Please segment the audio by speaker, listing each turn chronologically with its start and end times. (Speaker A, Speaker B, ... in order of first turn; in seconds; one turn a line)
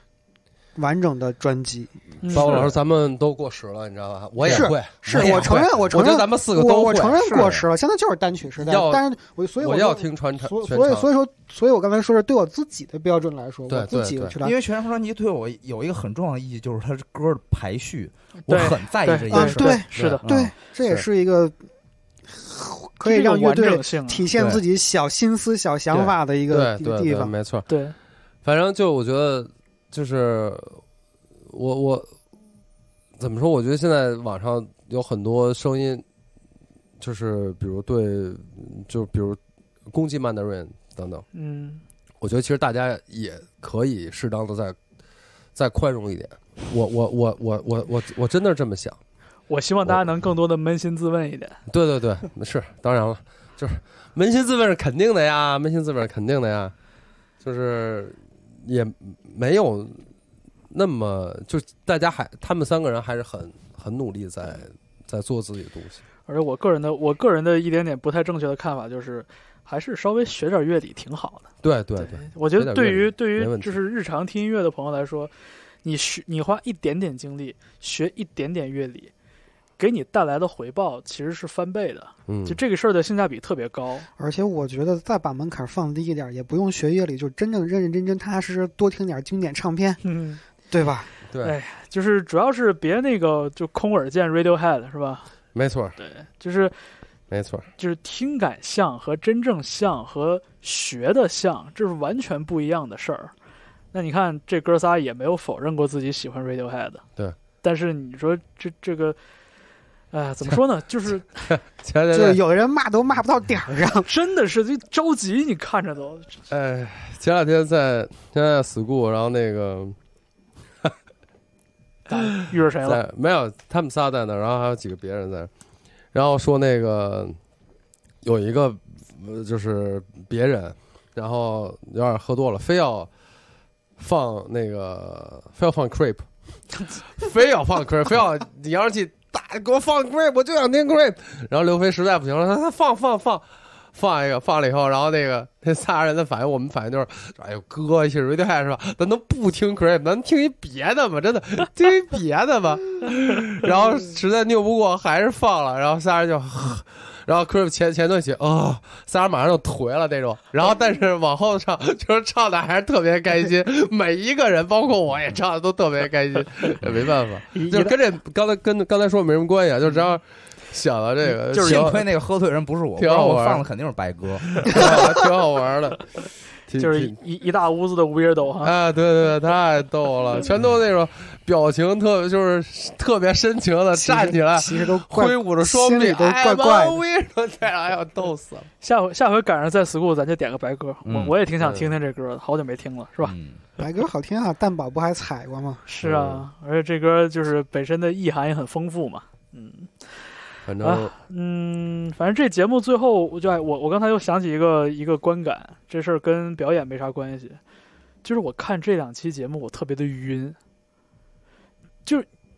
Speaker A: 0.8-2.6
Speaker B: 2.2-2.7
Speaker C: 2.2-7.5
Speaker D: 4.5-5.7
Speaker A: 4.5-14.6
Speaker D: 7.2-7.7
Speaker C: 8.6-9.1
Speaker C: 9.6-11.1
Speaker C: 13.7-14.4
Speaker D: 14.4-20.5
Speaker B: 18.5-20.2
Speaker A: 19.3-21.6
Speaker C: 19.9-20.2
Speaker A: 22.3-27.3
Speaker B: 23.0-24.3
Speaker D: 24.3-24.6
Speaker D: 25.9-26.2
Speaker C: 26.5-27.7
Speaker B: 27.7-28.0
Speaker C: 28.4-30.8
Speaker C: 31.5-32.1
Speaker C: 33.2-36.0
Speaker C: 37.0-39.4
Speaker C: 39.9-41.2
Speaker B: 41.3-41.8
Speaker C: 42.2-44.8
Speaker C: 45.6-49.0
Speaker B: 49.5-51.6
Speaker C: 51.7-56.7
Speaker C: 57.4-60.1
Speaker C: 60.7-66.0
Speaker B: 66.3-75.3
Speaker C: 71.6-73.8
Speaker B: 75.8-79.1
Speaker B: 79.8-84.1
Speaker C: 82.3-82.6
Speaker A: 84.2-90.0
Speaker B: 90.0-90.4
Speaker A: 90.7-91.1
Speaker C: 91.3-91.6
Speaker B: 91.4-95.3
Speaker C: 95.5-96.0
Speaker B: 96.0-96.7
Speaker C: 97.3-97.7
Speaker B: 97.8-103.3
Speaker B: 103.9-107.0
Speaker B: 107.6-109.2
Speaker B: 110.1-111.5
Speaker C: 111.5-112.4
Speaker A: 112.1-114.1
Speaker B: 114.0-116.4
Speaker C: 116.5-120.0
Speaker B: 122.1-123.0
Speaker C: 122.1-125.5
Speaker C: 126.1-127.4
Speaker C: 128.2-133.1
Speaker C: 134.0-136.2
Speaker C: 137.2-172.0
Speaker B: 167.5-168.0
Speaker B: 171.5-172.0
Speaker D: 171.6-174.7
Speaker C: 173.0-173.6
Speaker C: 174.6-176.0
Speaker C: 176.7-177.2
Speaker B: 176.8-178.7
Speaker C: 178.6-188.7
Speaker A: 183.9-187.0
Speaker B: 188.8-193.3
Speaker D: 191.1-191.3
Speaker C: 191.6-191.9
Speaker D: 193.2-193.6
Speaker A: 193.8-195.8
Speaker B: 195.9-199.9
Speaker C: 196.0-196.5
Speaker C: 200.7-201.1
Speaker B: 200.8-207.6
Speaker B: 208.2-210.6